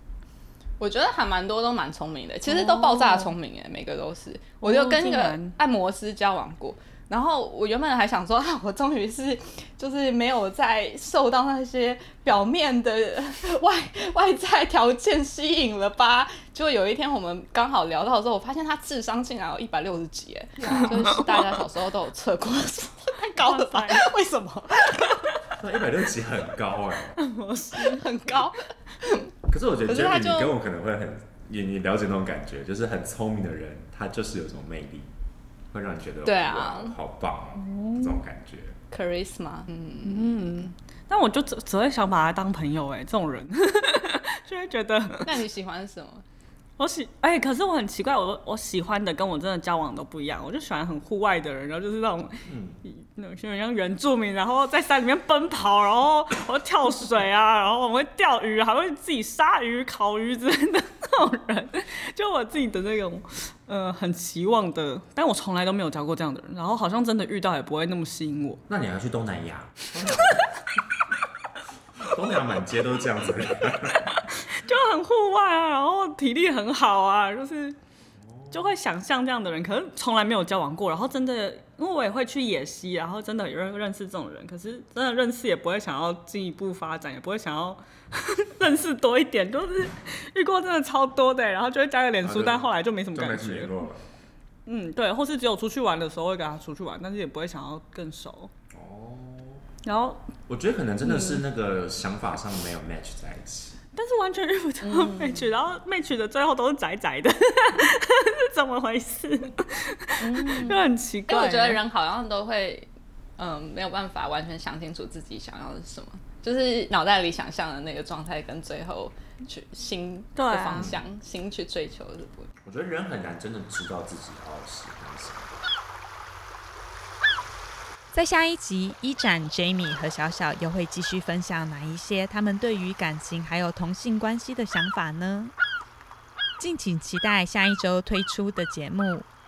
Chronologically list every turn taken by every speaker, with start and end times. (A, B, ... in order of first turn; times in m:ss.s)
0:00.8-0:25.4 A
0:02.5-0:03.4 B
0:04.6-0:05.6 B
0:20.6-0:21.6 B
0:23.2-0:24.1 B
0:25.6-0:27.2 C
0:27.2-0:28.1 B
0:27.8-0:29.3 A
0:29.5-0:35.1 C
0:29.9-0:30.5 A
0:35.7-0:38.8 C
0:36.2-0:37.0 A
0:37.6-0:38.2 B
0:38.9-0:40.7 A
0:40.0-0:45.4 B
0:45.2-0:46.2 A
0:46.8-1:08.6 B
0:52.5-0:52.8 C
1:08.7-1:10.4 C
1:12.0-1:14.2 C
1:14.3-1:17.8 B
1:18.2-1:18.8 C
1:18.5-1:33.7 B
1:32.2-1:34.0 C
1:34.7-1:38.5 B
1:38.7-1:39.6 C
1:39.8-1:40.3 B
1:40.5-1:43.8 C
1:43.9-1:51.8 B
1:44.8-1:45.5 A
1:50.2-2:02.5 A
2:00.4-2:00.9 B
2:02.6-2:05.6 C
2:08.1-2:15.5 D
2:16.6-2:19.3 D